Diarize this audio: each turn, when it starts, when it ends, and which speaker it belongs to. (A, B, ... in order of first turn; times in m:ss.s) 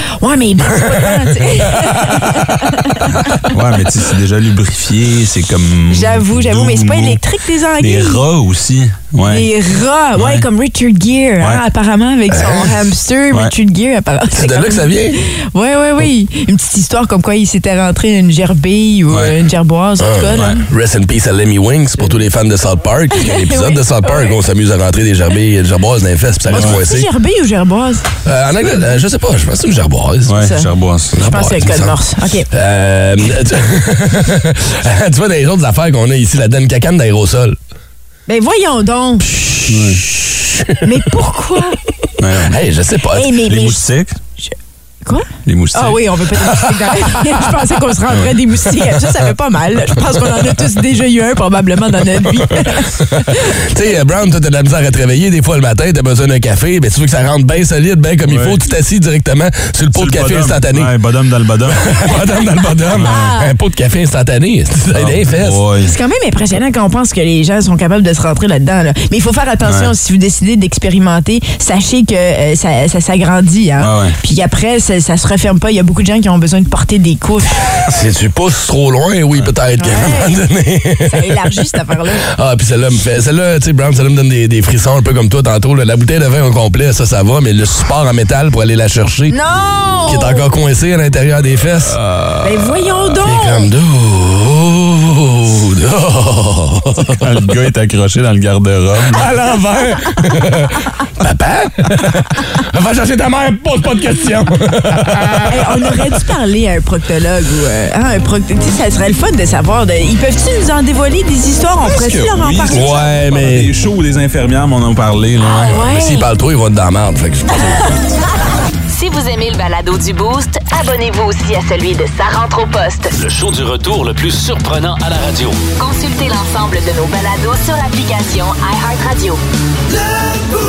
0:00.2-0:03.4 A
0:00.6-0:01.6 B
0:03.4-0:07.2 C
0:05.9-0:08.2 A
0:07.8-0:09.5 C
0:09.2-0:20.6 A
0:10.1-0:10.4 C
0:12.3-0:12.7 B
0:14.3-0:15.2 B
0:20.0-0:27.1 B
0:23.1-0:24.4 A
0:26.5-0:28.0 A
0:26.5-0:26.8 C
0:28.2-0:30.4 B
0:30.2-0:31.2 C
0:30.4-0:32.5 A
0:31.1-0:32.0 B
0:32.5-0:37.6 B
0:38.3-0:39.3 A
0:39.2-0:40.8 B
0:39.7-0:40.0 C
0:40.8-0:41.8 A
0:42.2-0:42.6 C
0:42.4-0:43.4 B
0:43.1-0:43.8 A
0:43.4-0:44.2 C
0:45.0-0:53.6 A
0:45.4-0:46.0 C
0:46.5-0:47.1 B
0:48.1-0:48.4 C
0:52.4-1:00.9 B
0:58.2-0:58.6 C
0:59.9-1:01.9 C
1:01.7-1:05.6 B
1:02.9-1:03.5 A
1:02.9-1:03.3 C
1:04.9-1:05.9 C
1:05.8-1:17.7 A
1:09.6-1:09.9 C
1:13.8-1:14.2 C
1:17.8-1:21.4 B
1:19.8-1:20.4 A
1:21.0-1:22.3 A
1:22.3-1:29.3 B
1:29.3-1:30.5 A
1:30.0-1:37.2 B
1:32.4-1:33.7 A
1:37.2-1:39.3 C
1:39.1-1:46.1 B
1:45.5-1:53.4 A
1:51.8-1:55.8 C
1:52.7-1:53.7 B
1:55.5-1:56.2 A
1:55.7-1:57.9 B
1:58.9-2:03.1 D
2:03.2-2:05.6 E
2:05.8-2:09.4 D